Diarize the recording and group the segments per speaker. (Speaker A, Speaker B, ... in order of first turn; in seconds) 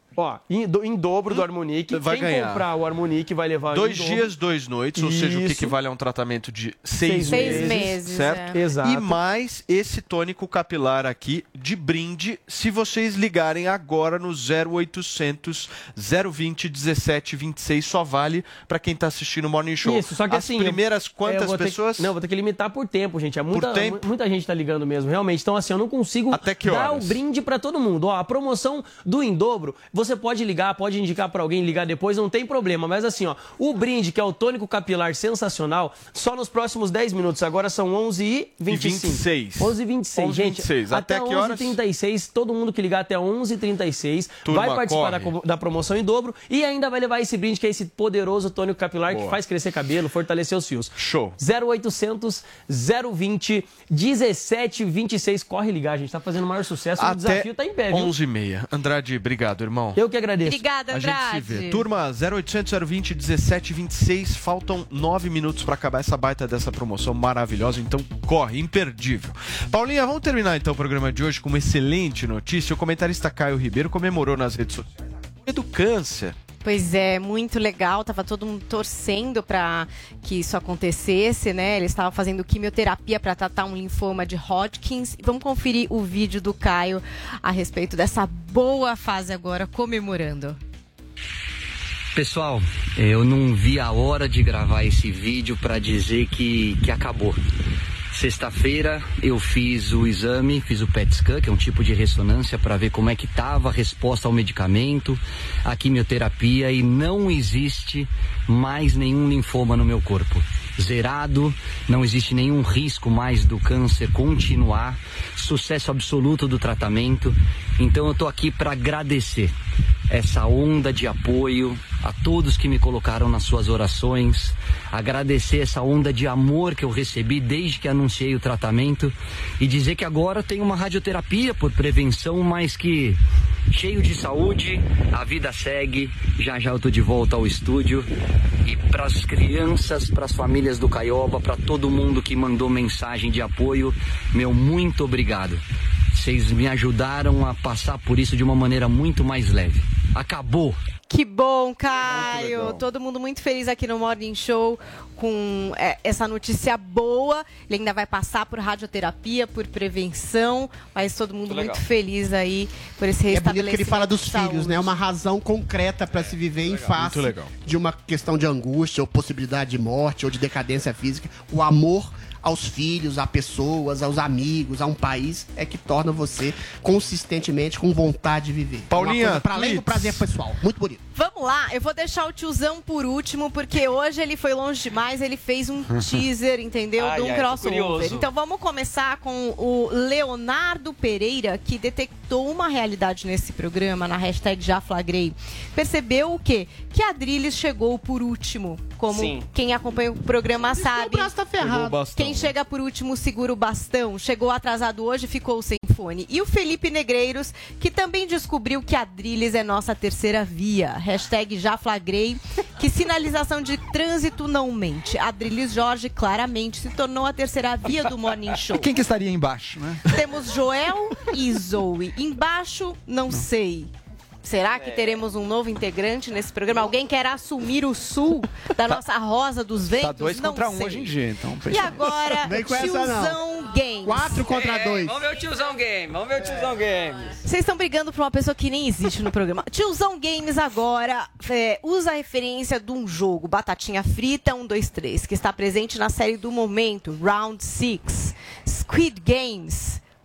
Speaker A: 0.1-4.3, 4.9-5.7, 7.0-8.0, 8.5-9.2, 19.8-58.1, 59.9-60.6
Speaker B: 1.3-2.6, 3.7-22.1, 23.5-24.0, 26.3-27.2, 38.7-41.8, 44.4-45.3, 49.1-49.4, 51.0-51.4, 57.0-60.0, 60.9-74.9, 75.4-76.4, 166.9-167.5, 178.9-180.2, 201.6-202.5
Speaker C: 7.3-8.6, 60.4-61.9, 76.6-90.6, 151.1-165.0, 181.1-201.3, 202.1-218.9, 220.1-223.9, 224.4-231.1, 231.7-234.4, 237.4-250.0
Speaker D: 92.1-97.4, 98.1-119.5, 120.1-133.2, 133.7-138.1, 138.6-145.6, 146.2-150.8
Speaker E: 161.5-161.8, 187.0-188.3, 199.1-199.4, 224.7-225.2, 234.5-237.3
Speaker F: 163.3-181.0, 200.7-202.1, 232.4-233.4, 234.0-235.2
Speaker G: 218.7-220.1, 230.0-232.4